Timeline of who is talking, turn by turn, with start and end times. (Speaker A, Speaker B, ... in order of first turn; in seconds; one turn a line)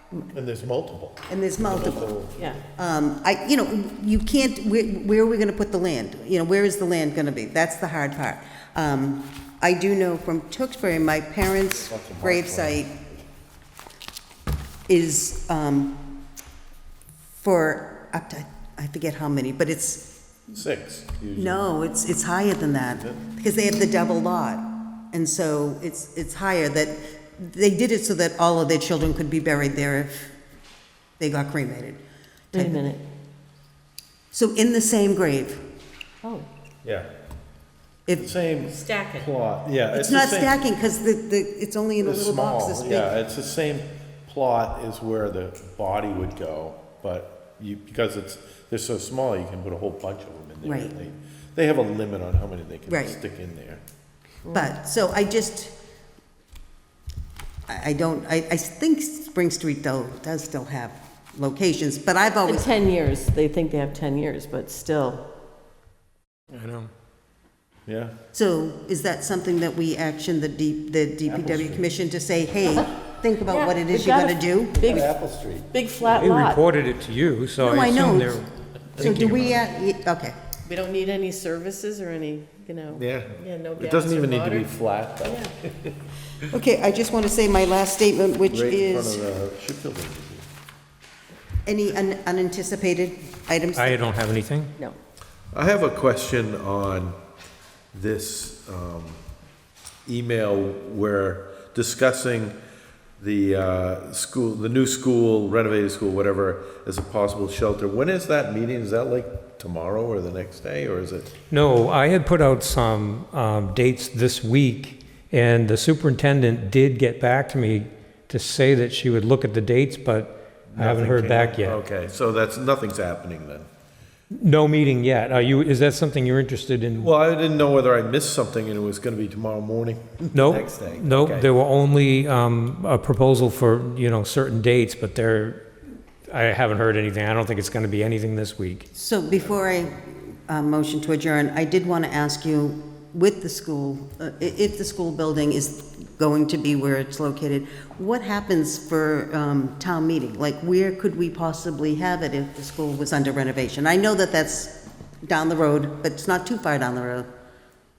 Speaker A: 0.3-2.4
Speaker B: 1.3-2.1
Speaker B: 2.8-12.9
Speaker A: 11.8-12.9
Speaker B: 14.9-16.0
Speaker B: 17.4-20.1
Speaker A: 20.5-21.7
Speaker B: 21.4-30.3
Speaker B: 31.2-32.0
Speaker C: 32.5-33.0
Speaker B: 32.5-32.8
Speaker B: 34.3-35.6
Speaker A: 38.2-40.5
Speaker C: 38.6-39.3
Speaker B: 39.9-43.1
Speaker A: 42.0-53.8
Speaker B: 50.6-50.9
Speaker B: 52.9-53.1
Speaker C: 54.4-54.7
Speaker B: 54.5-55.7
Speaker B: 57.7-62.7
Speaker C: 62.5-65.3
Speaker D: 66.5-66.9
Speaker A: 67.9-68.1
Speaker B: 68.3-75.1
Speaker A: 71.2-71.8
Speaker C: 73.5-75.1
Speaker A: 74.8-75.7
Speaker C: 75.7-76.6
Speaker D: 76.0-79.6
Speaker B: 77.6-78.4
Speaker B: 79.0-80.3
Speaker C: 80.7-84.7
Speaker A: 82.9-86.0
Speaker C: 85.2-85.5
Speaker B: 86.5-89.2
Speaker A: 88.5-90.5
Speaker B: 91.7-94.0
Speaker D: 93.8-94.7
Speaker A: 95.5-97.2
Speaker A: 97.9-99.2
Speaker A: 100.0-102.5
Speaker A: 103.2-111.3
Speaker D: 111.5-121.8
Speaker A: 120.7-123.7
Speaker D: 124.3-127.1
Speaker A: 127.0-131.5
Speaker D: 130.3-135.6
Speaker D: 136.3-138.9
Speaker B: 138.9-157.3